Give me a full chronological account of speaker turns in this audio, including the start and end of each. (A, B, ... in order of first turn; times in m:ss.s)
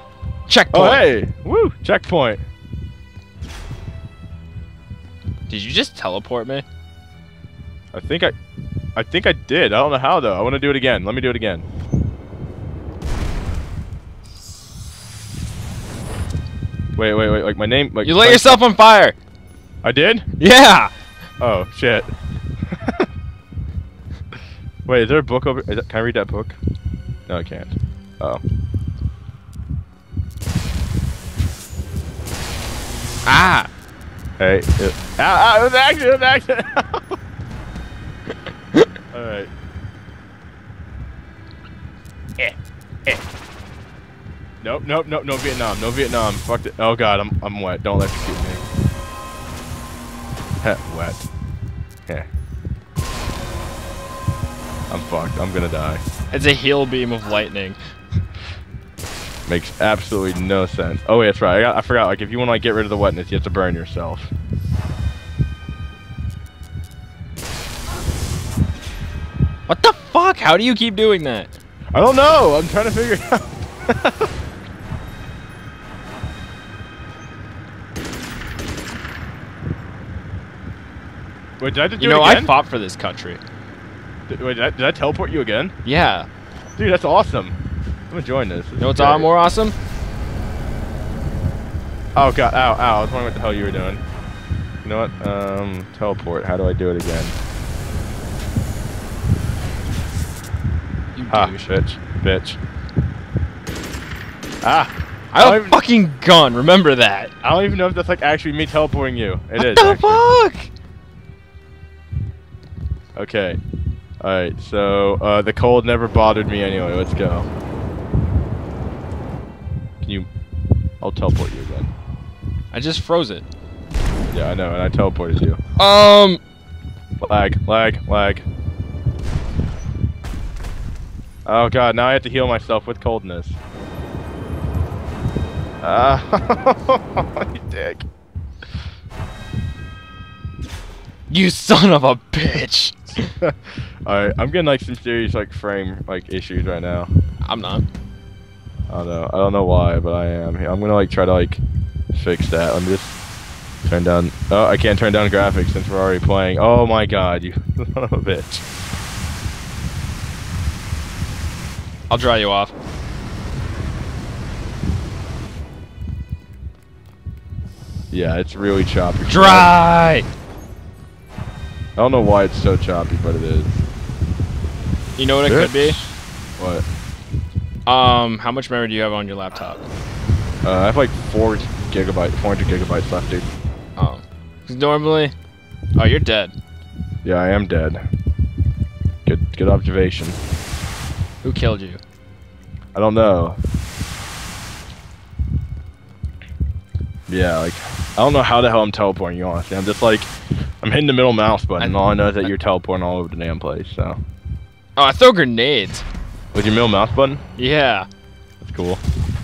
0:00.5-0:01.1 A
0:00.7-0:02.4 B
0:05.5-0:06.6 A
0:07.9-0:08.3 B
0:09.0-0:11.6 B
0:17.0-0:18.6 B
0:18.0-0:19.2 A
0:19.8-0:20.3 B
0:20.4-0:20.9 A
0:21.4-0:22.1 B
0:22.7-0:23.1 B
0:24.8-0:26.6 B
0:27.3-0:28.4 B
0:33.2-0:33.7 A
0:34.4-0:37.2 B
0:39.1-0:39.5 B
0:44.6-0:48.6 B
0:50.6-0:51.3 B
0:54.9-0:56.0 B
0:56.3-0:57.8 A
0:59.4-1:04.3 B
1:09.7-1:11.6 A
1:11.9-1:14.3 B
1:21.6-1:22.5 B
1:22.0-1:23.4 A
1:24.3-1:25.7 B
1:25.8-1:26.3 A
1:26.8-1:27.6 B
1:28.1-1:29.3 B
1:28.8-1:29.8 A
1:32.2-1:34.0 B
1:34.8-1:37.4 B
1:41.1-1:41.7 A
1:41.3-1:42.6 B
1:44.6-1:45.8 B
1:45.3-1:47.3 A
1:47.4-1:50.2 B
1:49.6-1:50.7 A
1:53.1-1:53.6 B
1:54.2-1:57.5 B
2:00.0-2:00.3 B
2:01.0-2:01.9 B
2:02.7-2:03.5 A
2:04.3-2:05.6 B
2:05.8-2:06.4 A
2:07.2-2:08.4 B
2:11.4-2:13.6 B
2:15.8-2:18.0 B
2:21.3-2:23.2 A
2:23.4-2:27.1 B
2:27.4-2:27.8 A
2:28.9-2:33.2 B
2:33.8-2:38.6 B
2:42.1-2:42.7 A
2:48.1-2:49.7 B
2:49.3-2:50.3 A
2:52.0-2:53.7 B
2:55.2-2:56.0 A
2:55.4-2:56.8 B
2:57.8-2:59.8 A
3:00.6-3:03.5 B
3:04.0-3:05.3 A
3:06.0-3:06.5 A
3:07.2-3:08.0 B
3:09.2-3:10.4 B
3:11.4-3:12.0 A
3:12.9-3:13.6 B
3:17.3-3:20.3 B
3:20.8-3:24.2 B
3:21.8-3:22.5 A
3:25.0-3:26.0 A
3:26.5-3:27.4 B
3:27.6-3:28.1 A
3:28.6-3:29.0 B